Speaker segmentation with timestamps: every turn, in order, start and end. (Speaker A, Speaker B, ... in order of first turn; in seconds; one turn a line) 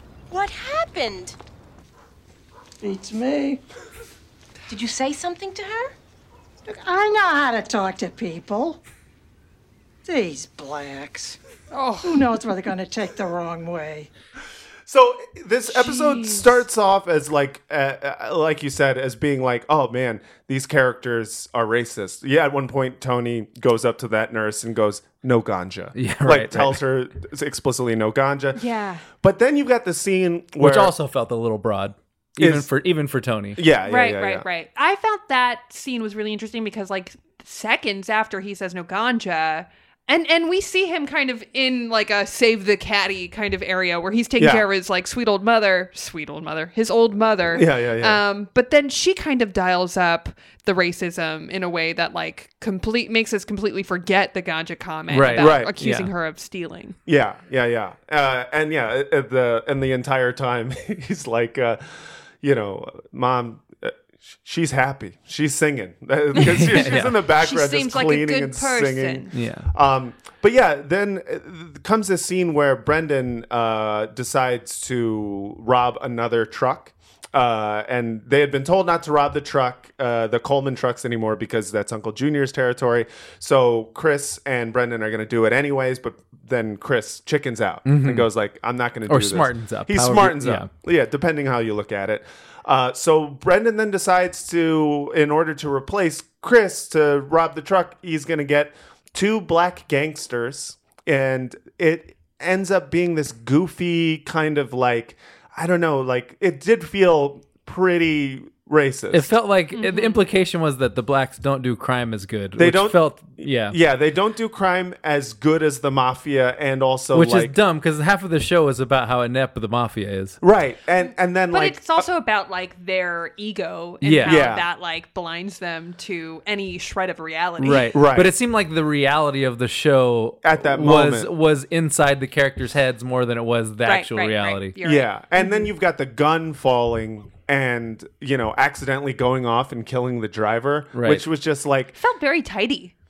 Speaker A: 0.3-1.3
Speaker B: 2.8-3.6
Speaker A: 4.7-5.9
Speaker B: 6.7-8.8
Speaker B: 10.0-11.4
Speaker C: 11.7-12.2
Speaker B: 12.0-14.1
Speaker D: 14.9-28.6
Speaker C: 15.7-16.6
Speaker E: 25.9-26.8
Speaker C: 28.5-29.0
Speaker D: 29.1-30.9
Speaker E: 30.6-33.6
Speaker D: 32.4-32.7
Speaker D: 33.5-34.4
Speaker C: 33.9-57.0
Speaker D: 44.4-44.6
Speaker D: 47.5-48.2
Speaker E: 55.1-56.1
Speaker D: 55.3-55.7
Speaker D: 57.1-109.3
Speaker E: 66.4-67.2
Speaker C: 66.5-69.3
Speaker E: 69.3-69.7
Speaker E: 87.8-88.3
Speaker E: 89.1-90.7
Speaker E: 109.1-113.8
Speaker C: 109.7-110.2
Speaker D: 112.6-117.6
Speaker E: 117.1-120.4
Speaker D: 120.4-122.1
Speaker C: 121.0-128.0
Speaker E: 124.0-124.4
Speaker D: 124.2-124.6
Speaker E: 127.6-134.7
Speaker D: 127.9-128.3
Speaker D: 130.4-131.3
Speaker C: 133.8-135.7
Speaker D: 134.8-141.9
Speaker E: 140.9-141.2
Speaker C: 142.0-142.9